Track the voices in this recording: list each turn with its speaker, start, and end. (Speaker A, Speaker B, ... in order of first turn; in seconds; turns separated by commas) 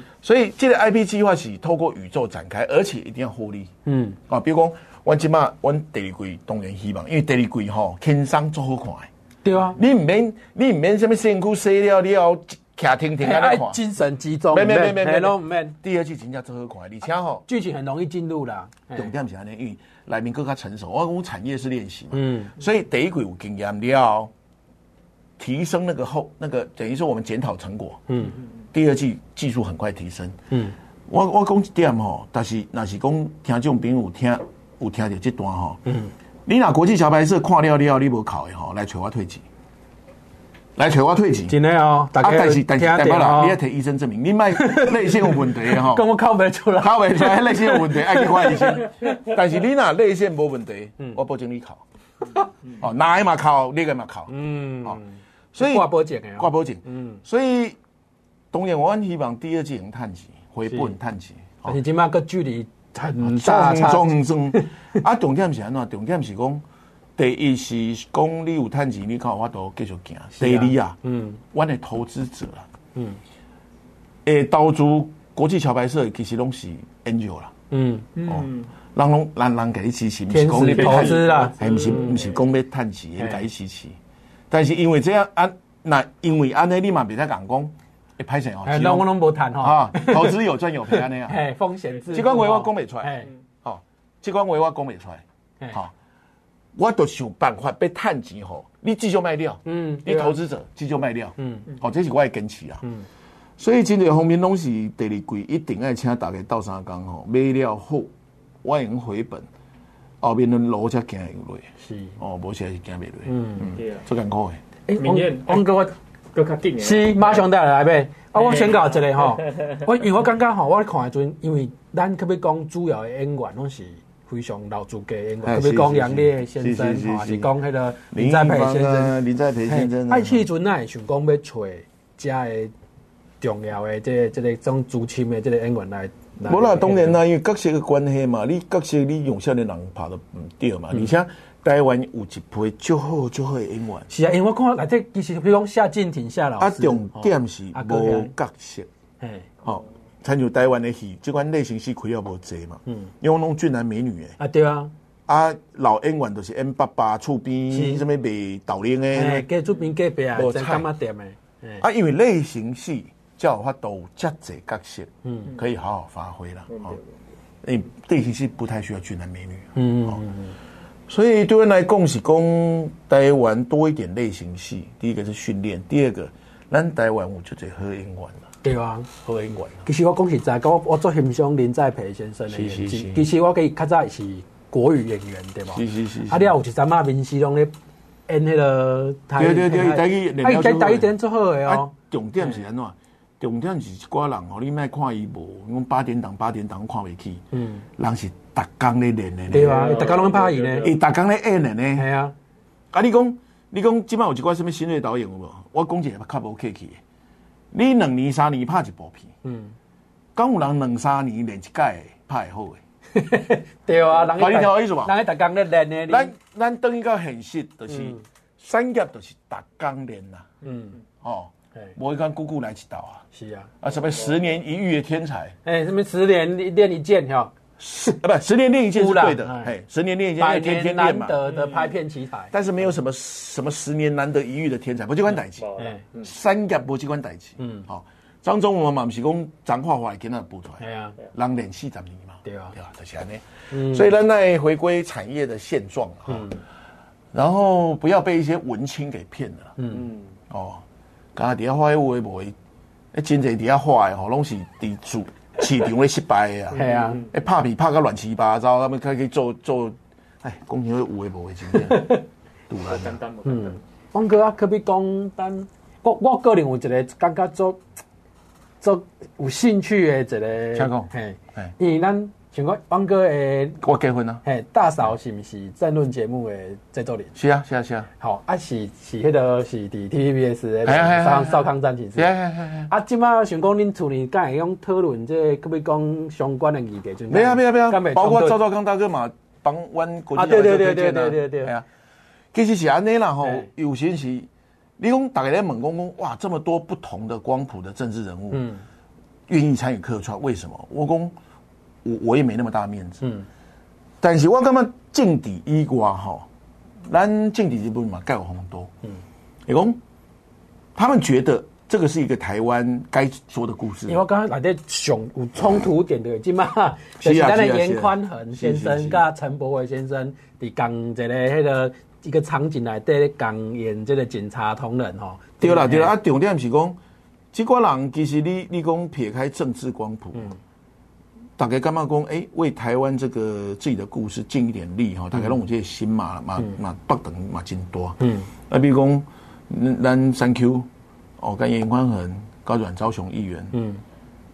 Speaker A: 0.2-3.7, Speaker B: 3.9-4.2, Speaker A: 4.3-9.1, Speaker B: 9.4-9.8, Speaker A: 9.7-13.8, Speaker B: 13.2-15.8, Speaker A: 14.5-17.4, Speaker B: 17.5-19.1, Speaker A: 18.9-24.3, Speaker B: 22.1-22.5, Speaker A: 25.4-28.0, Speaker B: 28.1-28.4, Speaker A: 28.7-30.4, Speaker A: 31.1-35.9, Speaker A: 36.5-39.4, Speaker A: 40.8-41.6, Speaker B: 41.5-43.6, Speaker A: 42.2-46.1, Speaker B: 44.5-49.1, Speaker A: 46.8-51.8, Speaker A: 52.8-55.0, Speaker B: 54.3-57.2, Speaker A: 55.5-57.8, Speaker A: 58.5-61.8, Speaker B: 61.6-64.7, Speaker A: 63.2-66.6, Speaker A: 67.2-71.0, Speaker B: 70.4-71.4, Speaker A: 71.5-72.7, Speaker A: 74.2-77.5, Speaker B: 77.7-78.1, Speaker C: 78.2-78.7, Speaker A: 78.2-84.0, Speaker B: 80.3-82.2, Speaker C: 80.8-82.3, Speaker B: 83.2-83.4, Speaker A: 84.5-91.4, Speaker B: 88.7-90.4, Speaker B: 90.9-93.3, Speaker A: 92.1-95.9, Speaker A: 96.8-102.8, Speaker B: 99.7-100.4, Speaker B: 101.4-101.7, Speaker A: 103.6-108.1, Speaker A: 108.6-109.5, Speaker A: 110.2-114.6, Speaker B: 111.8-112.2, Speaker B: 113.3-113.7, Speaker C: 113.8-114.0, Speaker B: 114.9-115.9, Speaker C: 115.0-115.8, Speaker C: 116.3-117.4, Speaker B: 116.8-132.7, Speaker C: 118.4-119.7, Speaker A: 125.4-127.5, Speaker A: 128.1-130.5, Speaker B: 133.4-137.2, Speaker A: 136.4-144.1, Speaker B: 144.1-148.3, Speaker A: 146.6-148.9, Speaker B: 149.2-149.5, Speaker A: 149.6-154.4, Speaker B: 154.4-154.9, Speaker A: 155.3-159.5, Speaker B: 157.7-158.1, Speaker B: 159.1-161.8, Speaker A: 160.3-160.9, Speaker A: 161.8-167.0, Speaker B: 165.2-165.5, Speaker C: 166.7-167.0, Speaker A: 167.6-170.2, Speaker B: 169.8-170.6, Speaker A: 171.1-178.5, Speaker B: 178.6-187.7, Speaker A: 179.3-179.8, Speaker A: 182.5-183.3, Speaker A: 185.7-186.5, Speaker B: 188.3-192.6, Speaker A: 189.4-197.4, Speaker B: 197.5-197.8, Speaker A: 198.0-200.0, Speaker B: 199.5-200.9, Speaker C: 199.6-200.9, Speaker A: 200.8-202.1, Speaker B: 202.0-202.3, Speaker A: 202.9-207.0, Speaker A: 207.7-209.3, Speaker B: 209.4-209.7, Speaker A: 210.4-212.8, Speaker B: 213.1-216.3, Speaker A: 214.3-215.1, Speaker A: 216.1-220.5, Speaker B: 217.9-218.2, Speaker B: 220.6-221.0, Speaker A: 221.2-223.3, Speaker B: 223.3-223.7, Speaker A: 223.8-225.6, Speaker B: 225.7-227.5, Speaker A: 227.8-231.4, Speaker B: 228.9-229.7, Speaker B: 230.4-232.5, Speaker C: 231.5-231.9, Speaker A: 232.5-235.7, Speaker C: 235.6-236.3, Speaker B: 235.8-236.0, Speaker A: 236.2-246.5, Speaker B: 237.6-237.8, Speaker B: 240.8-241.2, Speaker B: 242.4-242.8, Speaker B: 243.7-244.1, Speaker B: 246.3-246.6, Speaker A: 247.3-249.8, Speaker B: 249.8-250.1, Speaker A: 250.5-250.8, Speaker A: 251.3-252.6, Speaker A: 253.1-263.2, Speaker B: 256.7-257.2, Speaker C: 256.8-257.3, Speaker B: 261.8-262.2, Speaker C: 262.8-263.8, Speaker B: 263.4-267.8, Speaker B: 268.8-273.8, Speaker A: 270.8-271.7, Speaker A: 273.8-274.4, Speaker B: 274.4-277.3, Speaker A: 277.4-278.1, Speaker B: 278.2-282.3, Speaker A: 280.9-282.9, Speaker B: 282.9-288.6, Speaker A: 287.3-291.9, Speaker B: 290.4-291.7, Speaker A: 292.5-298.7, Speaker B: 298.5-298.8, Speaker A: 299.5-301.3, Speaker A: 302.0-303.2, Speaker A: 304.2-306.5, Speaker A: 307.1-308.9, Speaker A: 309.7-310.0, Speaker A: 311.0-314.2, Speaker B: 314.1-326.1, Speaker A: 317.2-319.2, Speaker A: 325.6-327.0, Speaker A: 327.5-330.5, Speaker A: 331.6-338.2, Speaker B: 338.2-338.5, Speaker A: 338.7-340.9, Speaker A: 341.4-343.7, Speaker B: 343.7-344.0